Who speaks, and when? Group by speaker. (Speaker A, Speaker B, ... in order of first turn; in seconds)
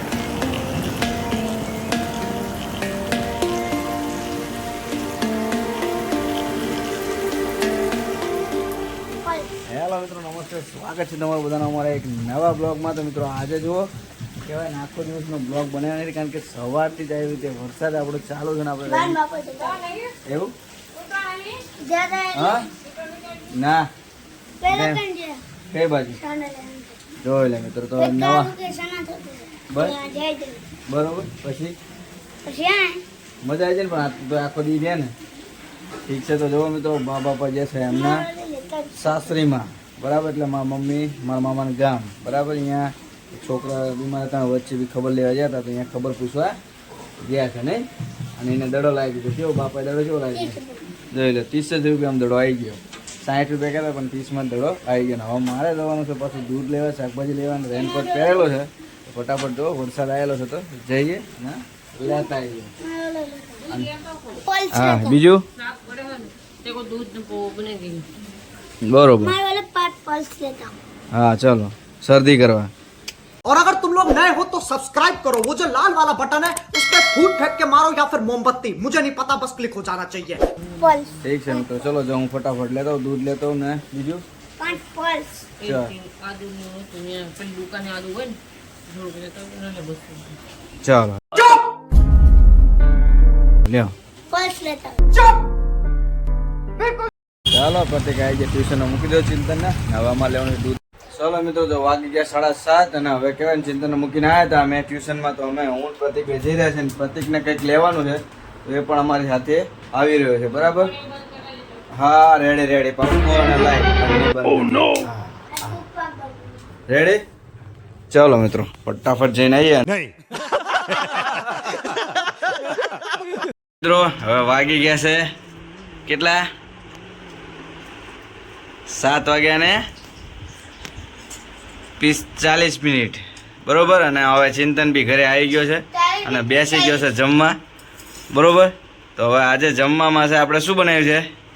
Speaker A: 9.2-9.5, 18.8-19.9, 21.1-22.6, 24.6-25.4, 26.2-27.0, 28.0-30.6, 32.5-33.0, 37.9-39.0, 50.3-50.9, 57.7-58.5, 62.0-63.7, 64.3-65.2, 69.2-70.8, 80.7-81.6, 84.6-85.5, 94.3-95.0, 115.5-116.6, 135.9-137.1
Speaker B: 9.7-13.9, 14.4-19.2, 20.3-20.5, 22.3-22.7, 23.5-23.8, 24.7-25.0, 25.7-26.2, 27.2-28.5, 29.7-29.9, 30.9-31.8, 33.4-35.1, 36.1-38.2, 39.0-46.5, 47.2-47.8, 48.4-50.6, 51.1-62.7, 64.7-65.4, 68.8-69.4, 71.1-72.7, 81.2-84.2, 85.6-85.9, 90.8-91.2, 93.7-93.9, 97.5-110.9, 111.9-115.8, 116.9-117.2, 118.1-119.9, 123.8-125.3, 126.1-126.4, 128.9-129.8, 132.0-137.6, 138.3-141.3
Speaker C: 65.7-68.1, 85.6-90.4
Speaker D: 73.4-80.4, 91.4-91.6, 95.1-95.4, 96.8-97.1